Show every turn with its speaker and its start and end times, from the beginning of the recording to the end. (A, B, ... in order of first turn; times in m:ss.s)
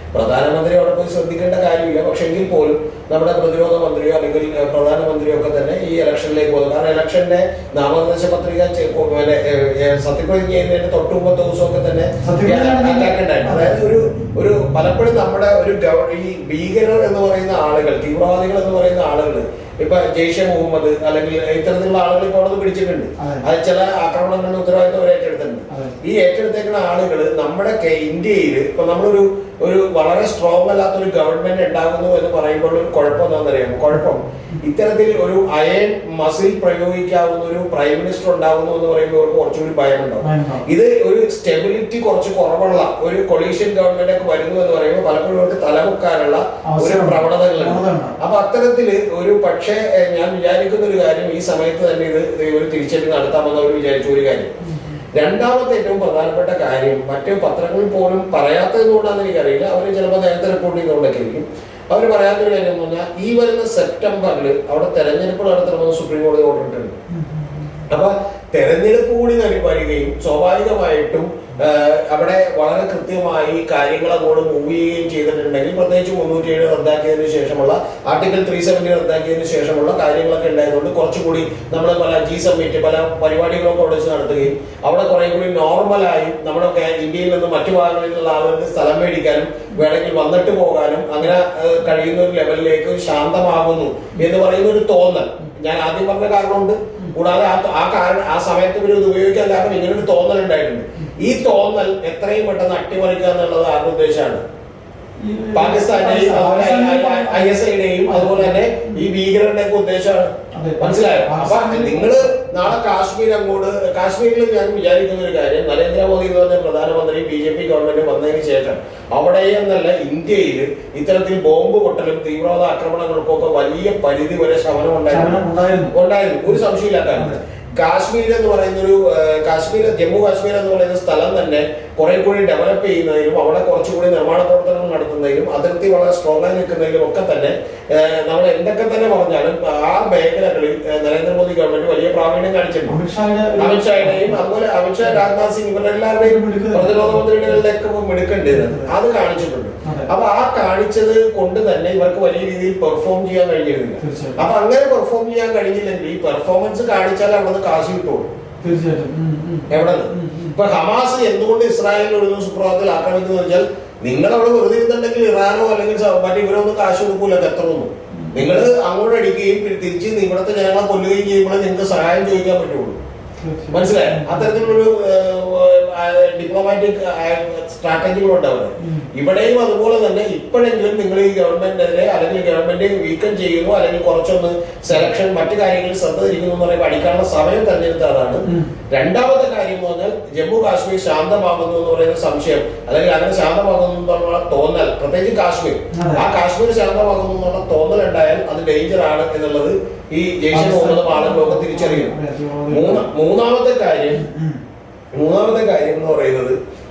0:00.1-0:54.5 A
0:12.2-0:14.0 B
0:23.2-0:23.4 B
0:25.7-0:26.0 B
0:40.2-0:40.7 B
0:46.7-0:48.2 B
0:55.1-1:07.0 A
1:07.1-1:07.7 B
1:07.9-1:44.4 A
1:41.0-1:41.3 B
1:45.2-1:49.0 B
1:45.5-2:05.4 A
1:50.5-1:52.7 B
2:05.1-2:05.9 B
2:05.9-2:23.0 A
2:22.9-2:24.4 B
2:23.6-2:38.3 A
2:26.2-2:27.6 B
2:28.5-2:28.9 B
2:29.8-2:30.1 B
2:34.0-2:34.4 B
2:38.6-2:40.6 B
2:39.7-2:53.0 A
2:48.2-2:48.5 B
2:53.4-2:54.7 B
2:53.7-3:22.1 A
2:58.8-2:59.1 B
3:08.5-3:08.7 B
3:15.9-3:16.2 B
3:20.5-3:23.0 B
3:22.7-3:24.2 A
3:24.1-3:24.6 B
3:25.1-3:26.6 A